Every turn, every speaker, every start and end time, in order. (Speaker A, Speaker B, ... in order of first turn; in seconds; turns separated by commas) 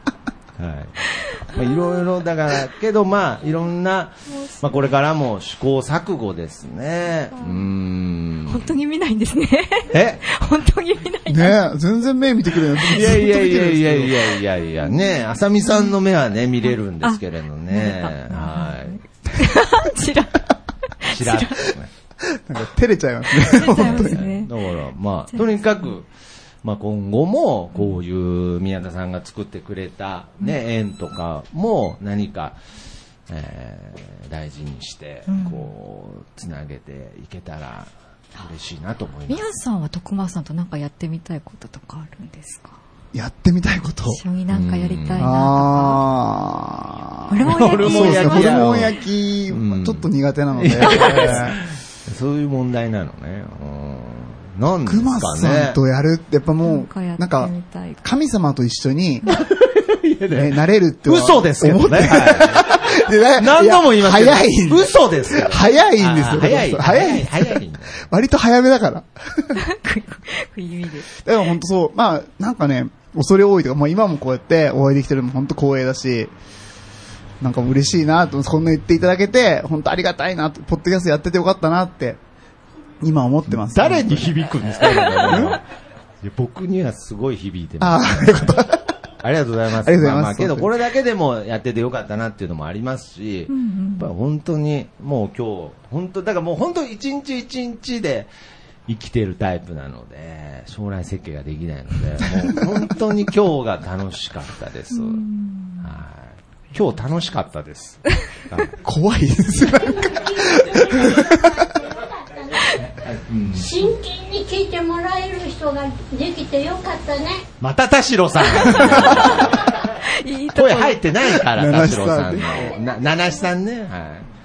Speaker A: 0.6-8.7, Speaker B: 1.3-1.7, Speaker B: 4.3-4.6, Speaker B: 7.3-7.7, Speaker B: 8.5-11.6, Speaker A: 9.9-10.2, Speaker C: 11.3-14.4, Speaker A: 12.9-19.0, Speaker B: 17.0-21.6, Speaker A: 21.1-21.9, Speaker C: 22.3-24.2, Speaker B: 23.4-24.5, Speaker A: 23.6-26.1, Speaker B: 25.3-25.8, Speaker A: 26.6-32.6, Speaker A: 33.3-39.4, Speaker B: 35.3-35.7, Speaker B: 39.3-42.8, Speaker C: 43.1-44.2, Speaker B: 44.0-46.0, Speaker A: 44.5-45.3, Speaker C: 45.2-51.6, Speaker B: 47.3-48.9, Speaker A: 47.4-49.0, Speaker A: 49.5-55.8, Speaker B: 50.8-51.5, Speaker C: 54.8-59.3, Speaker B: 56.6-58.0, Speaker A: 59.3-60.5, Speaker C: 60.3-69.6, Speaker A: 61.0-68.0, Speaker B: 69.5-71.1, Speaker C: 71.2-76.3, Speaker C: 77.4-82.2, Speaker C: 83.0-84.5, Speaker A: 83.5-85.6, Speaker B: 84.8-85.5, Speaker C: 85.2-85.6, Speaker A: 86.2-88.6, Speaker C: 87.8-88.9, Speaker A: 89.2-98.3, Speaker C: 89.8-90.7, Speaker B: 93.5-94.1, Speaker A: 98.9-105.2, Speaker C: 102.4-102.8, Speaker B: 104.9-105.9, Speaker A: 105.8-108.8, Speaker C: 108.8-111.7, Speaker D: 109.6-117.4, Speaker A: 113.0-113.7, Speaker A: 117.6-119.8, Speaker B: 118.7-121.4, Speaker A: 120.5-124.3, Speaker C: 121.5-122.7, Speaker D: 122.5-122.9